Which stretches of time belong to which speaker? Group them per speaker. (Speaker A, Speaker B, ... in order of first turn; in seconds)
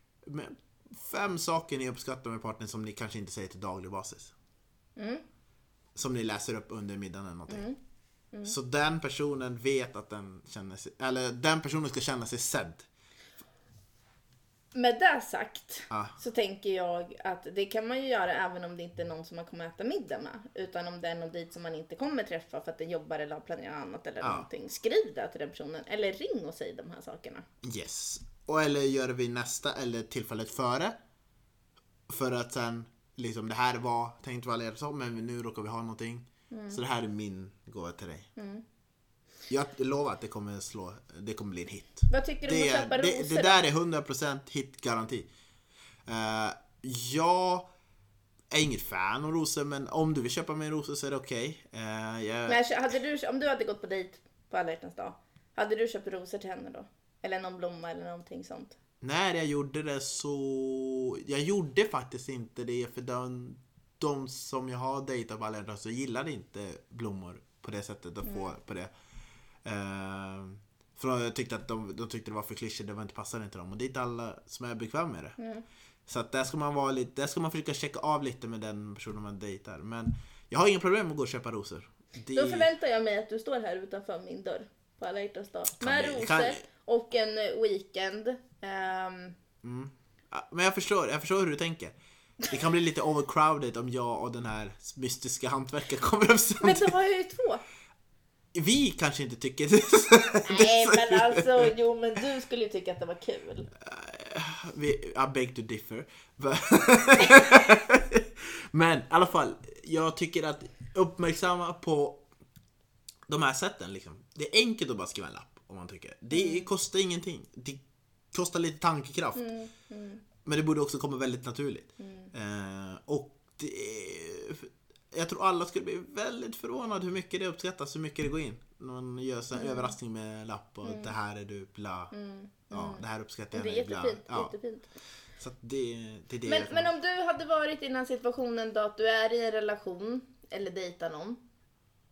Speaker A: 0.2-4.3, 5.9-7.7, 8.4-12.9, 24.2-24.5, 27.6-30.9, 32.1-38.3, 39.5-45.3, 46.0-47.7, 48.5-52.6, 59.0-68.9, 69.6-75.4, 76.1-82.7, 85.8-86.6, 89.6-91.9, 92.5-96.9, 98.5-101.7, 103.8-112.2, 113.3-117.8, 118.3-119.5, 120.4-132.1, 132.7-134.5, 135.4-136.9
Speaker B: 5.0-5.2, 7.5-7.8, 14.7-27.4, 36.5-36.8, 38.4-38.6, 42.1-43.6, 52.5-58.8, 68.2-68.5, 75.4-75.6, 82.3-89.3, 96.6-97.6, 100.5-103.7, 116.3-116.7, 119.3-120.2, 122.0-122.3, 129.5-129.9, 130.8-131.1, 132.1-134.9, 136.4-141.4